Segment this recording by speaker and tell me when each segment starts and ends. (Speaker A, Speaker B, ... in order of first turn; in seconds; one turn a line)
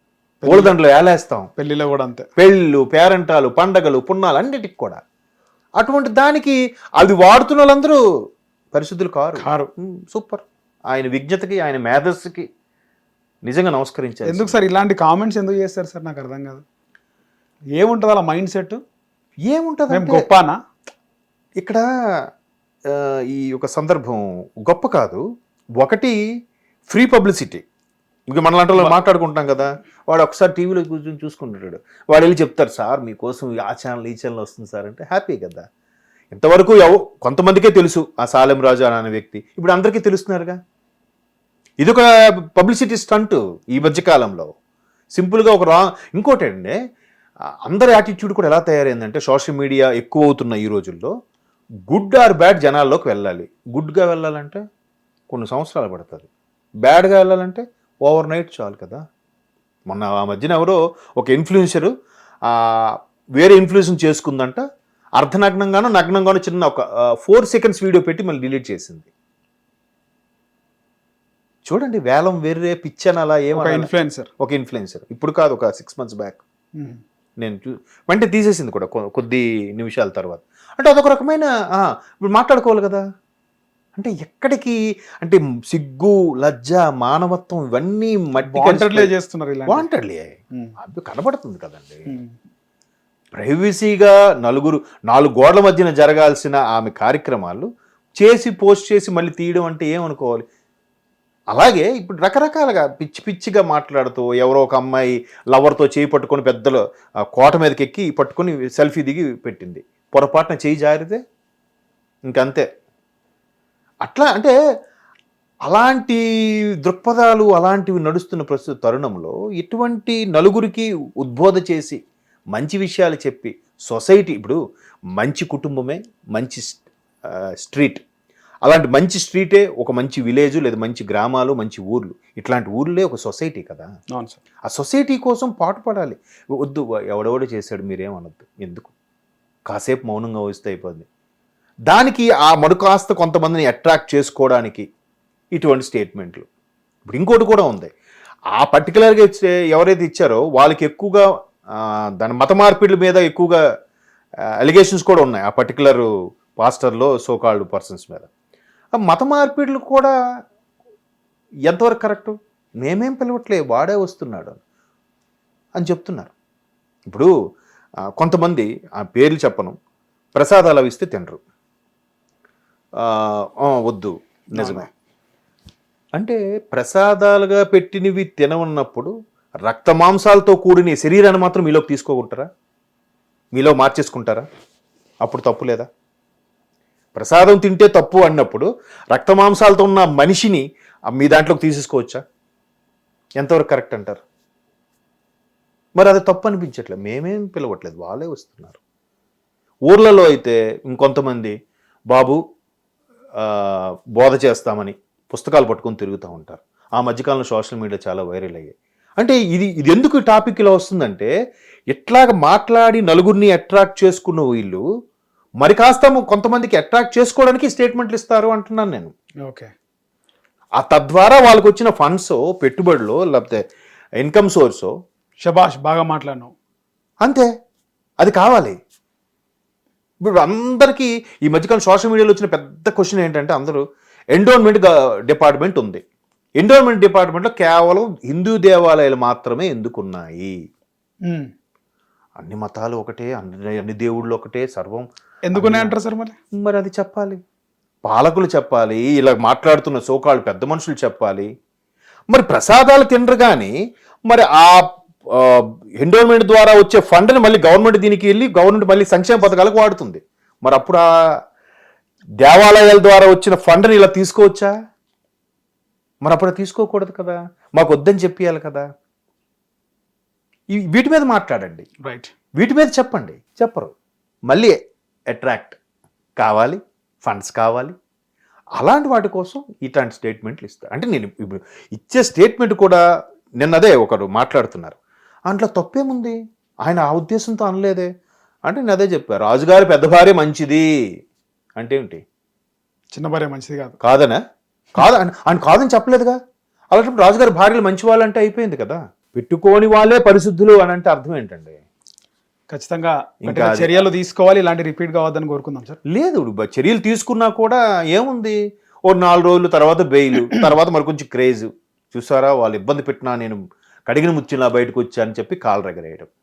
Speaker A: 0.4-0.8
Speaker B: 0.5-1.5
Speaker A: 1.6-2.3
Speaker B: 2.4-5.0
Speaker B: 5.8-8.0
Speaker B: 8.7-12.5
Speaker A: 9.4-9.7
Speaker B: 13.4-14.6
Speaker A: 14.3-16.6
Speaker A: 17.8-18.8
Speaker B: 19.5-20.2
Speaker A: 19.9-20.6
Speaker B: 21.6-21.9
Speaker B: 22.9-25.2
Speaker B: 25.8-26.2
Speaker B: 26.9-27.6
Speaker B: 28.3-35.6
Speaker B: 36.3-40.6
Speaker B: 41.8-44.5
Speaker B: 45.1-46.8
Speaker B: 47.7-51.1
Speaker B: 51.9-54.6
Speaker B: 55.3-56.3
Speaker B: 56.8-59.0
Speaker B: 59.9-61.9
Speaker B: 62.5-64.6
Speaker B: 65.2-69.1
Speaker B: 71.7-76.4
Speaker A: 73.5-74.3
Speaker B: 77.4-83.0
Speaker B: 84.0-89.1
Speaker A: 88.4-89.9
Speaker B: 89.7-92.1
Speaker A: 92.1-92.3
Speaker B: 93.4-97.7
Speaker B: 98.2-100.5
Speaker B: 101.5-106.8
Speaker B: 107.3-111.2
Speaker B: 112.3-112.7
Speaker B: 114.0-114.5
Speaker B: 115.7-116.2
Speaker B: 116.8-122.0
Speaker B: 122.5-124.6
Speaker B: 125.2-128.0
Speaker B: 128.6-133.9
Speaker A: 134.1-134.4
Speaker B: 134.7-138.9
Speaker B: 139.7-141.1
Speaker B: 141.9-144.9
Speaker B: 145.6-146.4
Speaker B: 147.1-147.9
Speaker B: 148.6-153.6
Speaker B: 154.6-158.3
Speaker B: 159.0-160.1
Speaker B: 161.7-164.6
Speaker B: 165.8-166.3
Speaker B: 168.2-169.8
Speaker B: 170.3-171.4
Speaker B: 173.0-174.9
Speaker A: 174.6-174.9
Speaker B: 176.2-179.1
Speaker B: 179.7-182.5
Speaker B: 183.5-184.5
Speaker B: 185.2-185.9
Speaker B: 187.2-192.2
Speaker B: 193.4-194.2
Speaker B: 196.0-198.8
Speaker B: 199.9-201.6
Speaker B: 202.1-202.4
Speaker B: 203.4-211.3
Speaker B: 211.9-214.8
Speaker B: 215.6-219.1
Speaker A: 219.4-219.7
Speaker B: 220.8-223.6
Speaker B: 224.2-224.9
Speaker A: 225.4-226.5
Speaker B: 228.2-228.8
Speaker B: 230.2-236.0
Speaker B: 236.6-240.5
Speaker A: 241.2-241.5
Speaker B: 242.4-245.9
Speaker A: 245.5-246.3
Speaker B: 246.5-247.4
Speaker B: 248.1-251.5
Speaker B: 252.3-253.8
Speaker B: 254.3-261.0
Speaker B: 262.4-264.7
Speaker B: 266.2-268.9
Speaker B: 270.7-271.9
Speaker A: 272.0-272.3
Speaker B: 272.6-273.9
Speaker B: 274.5-274.8
Speaker B: 275.3-275.8
Speaker B: 276.4-277.9
Speaker B: 278.8-283.0
Speaker B: 283.6-285.0
Speaker B: 285.5-288.1
Speaker B: 288.7-290.9
Speaker B: 291.8-292.2
Speaker A: 293.1-294.0
Speaker B: 294.0-294.4
Speaker B: 295.0-296.4
Speaker B: 296.9-301.8
Speaker A: 302.7-306.0
Speaker B: 303.4-304.1
Speaker B: 306.1-316.3